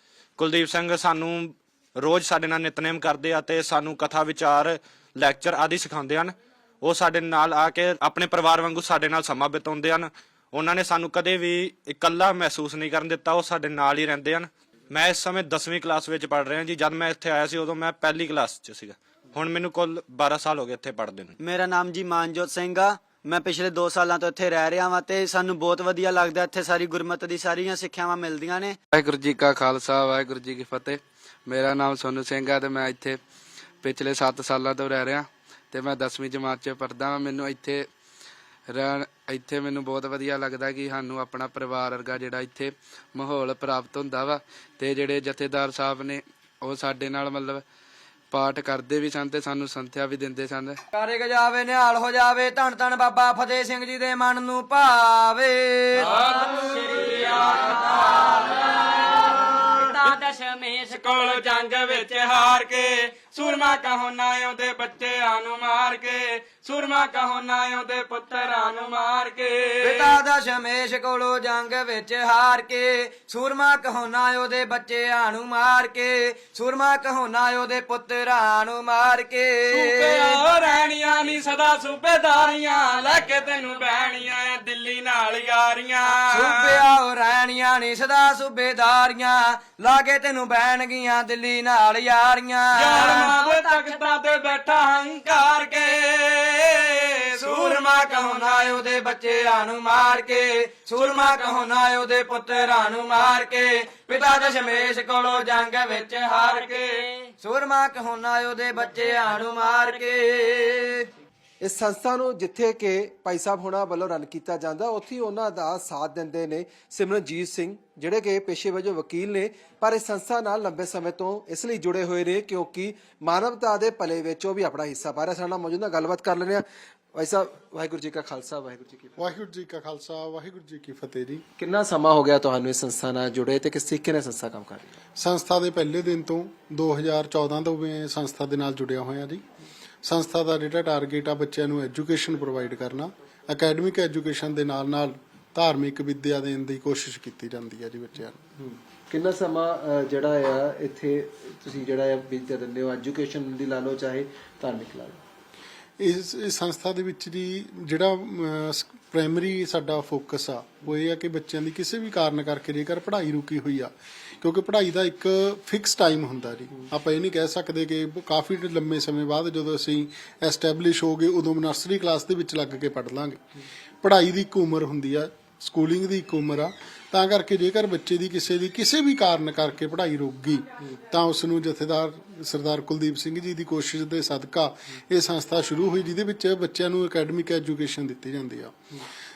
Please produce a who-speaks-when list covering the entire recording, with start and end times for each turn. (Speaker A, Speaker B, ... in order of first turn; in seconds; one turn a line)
Speaker A: 0.4-21.4
Speaker B: 21.4-28.8
Speaker C: 28.9-33.2
Speaker C: 33.8-37.9
Speaker C: 38.7-47.6
Speaker C: 48.3-50.8
Speaker D: 50.9-59.9
Speaker E: 56.1-57.9
Speaker E: 60.3-70.1
Speaker D: 69.8-80.4
Speaker E: 79.8-86.8
Speaker D: 86.3-93.4
Speaker E: 92.8-97.8
Speaker D: 97.3-111.1
Speaker F: 111.6-126.6
Speaker F: 127.1-129.2
Speaker G: 129.2-131.4
Speaker F: 131.6-135.0
Speaker G: 135.2-139.4
Speaker G: 140.0-148.4
Speaker F: 148.6-155.2
Speaker G: 156.0-173.4
Speaker G: 174.0-188.8